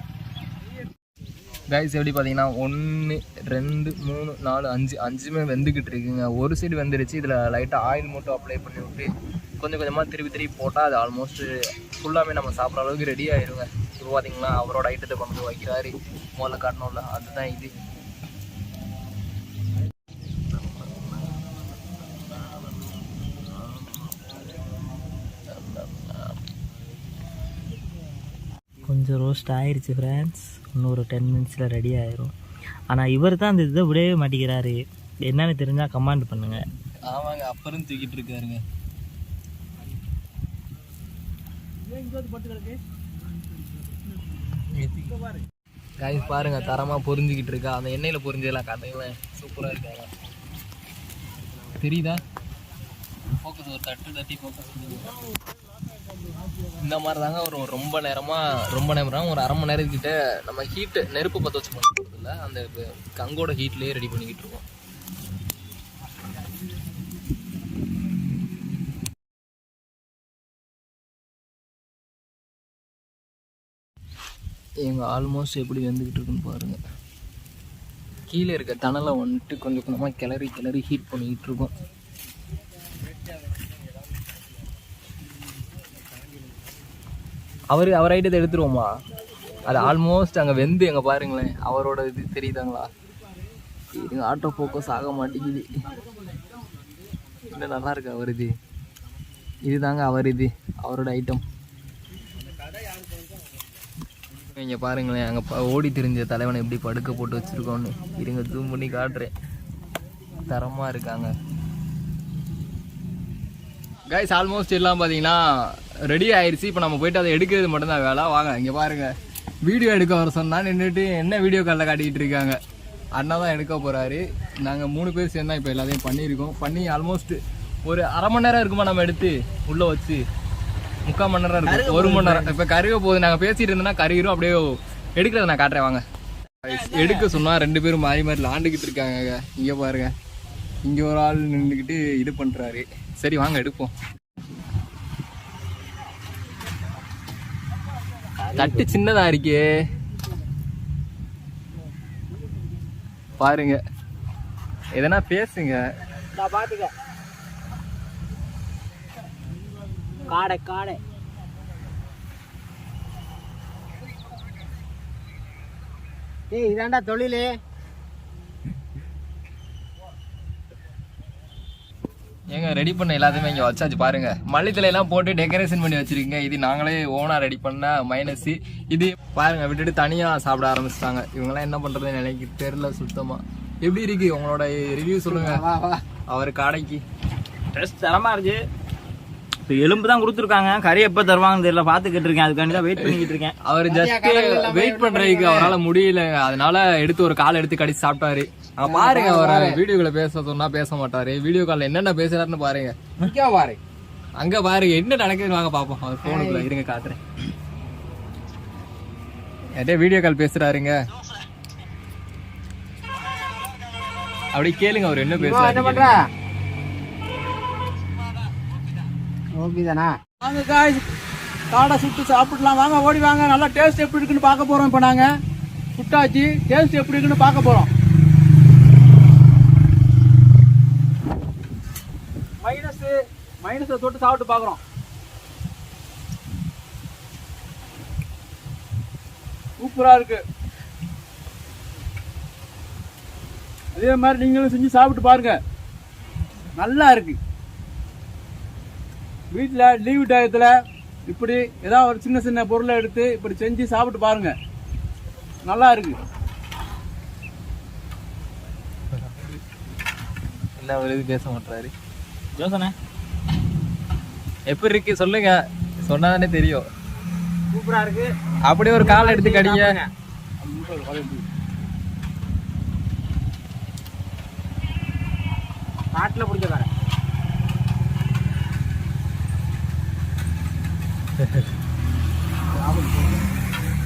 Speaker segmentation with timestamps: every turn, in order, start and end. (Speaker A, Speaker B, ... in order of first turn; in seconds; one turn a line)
Speaker A: 1.7-9.1
Speaker A: 9.6-17.7
Speaker A: 20.5-21.4
Speaker A: 23.7-24.0
Speaker A: 25.5-26.4
Speaker B: 28.9-32.3
Speaker B: 32.9-36.6
Speaker A: 37.1-38.6
Speaker C: 41.9-42.8
Speaker A: 44.6-45.2
Speaker A: 46.0-50.1
Speaker A: 51.8-52.2
Speaker A: 53.4-55.1
Speaker A: 56.8-64.7
Speaker A: 74.8-76.8
Speaker A: 78.3-81.7
Speaker A: 87.7-88.9
Speaker A: 89.7-92.9
Speaker A: 93.9-95.7
Speaker A: 97.5-98.5
Speaker A: 99.7-101.4
Speaker A: 104.6-109.3
Speaker A: 110.5-111.3
Speaker A: 114.1-119.1
Speaker A: 119.6-122.6
Speaker A: 123.2-130.2
Speaker A: 131.1-136.0
Speaker B: 131.7-132.5
Speaker A: 136.7-140.1
Speaker B: 136.7-137.2
Speaker A: 140.8-143.9
Speaker A: 148.5-149.7
Speaker A: 153.4-153.8
Speaker A: 154.9-155.8
Speaker D: 156.3-156.9
Speaker D: 160.3-161.0
Speaker D: 166.5-167.6
Speaker A: 172.5-185.6
Speaker D: 185.3-186.0
Speaker A: 186.3-187.0
Speaker B: 187.7-188.6
Speaker B: 189.7-193.6
Speaker A: 192.9-202.9
Speaker D: 193.9-195.8
Speaker D: 198.8-199.8
Speaker D: 203.2-203.8
Speaker A: 204.4-207.2
Speaker D: 206.2-206.7
Speaker A: 209.8-210.9
Speaker A: 214.5-216.2
Speaker D: 215.4-216.2
Speaker D: 219.6-220.1
Speaker C: 220.4-221.0
Speaker C: 221.7-225.3
Speaker C: 226.0-227.9
Speaker C: 232.6-234.8
Speaker C: 239.8-240.4
Speaker C: 243.9-245.6
Speaker C: 246.8-247.4
Speaker C: 249.5-250.7
Speaker C: 251.3-254.6
Speaker C: 255.7-256.2
Speaker A: 259.1-259.6
Speaker A: 260.8-261.9
Speaker B: 262.6-262.9
Speaker A: 264.7-266.8
Speaker D: 267.7-268.3
Speaker A: 268.7-270.0
Speaker D: 268.9-270.1
Speaker C: 270.6-271.5
Speaker D: 276.1-276.9
Speaker D: 282.8-283.3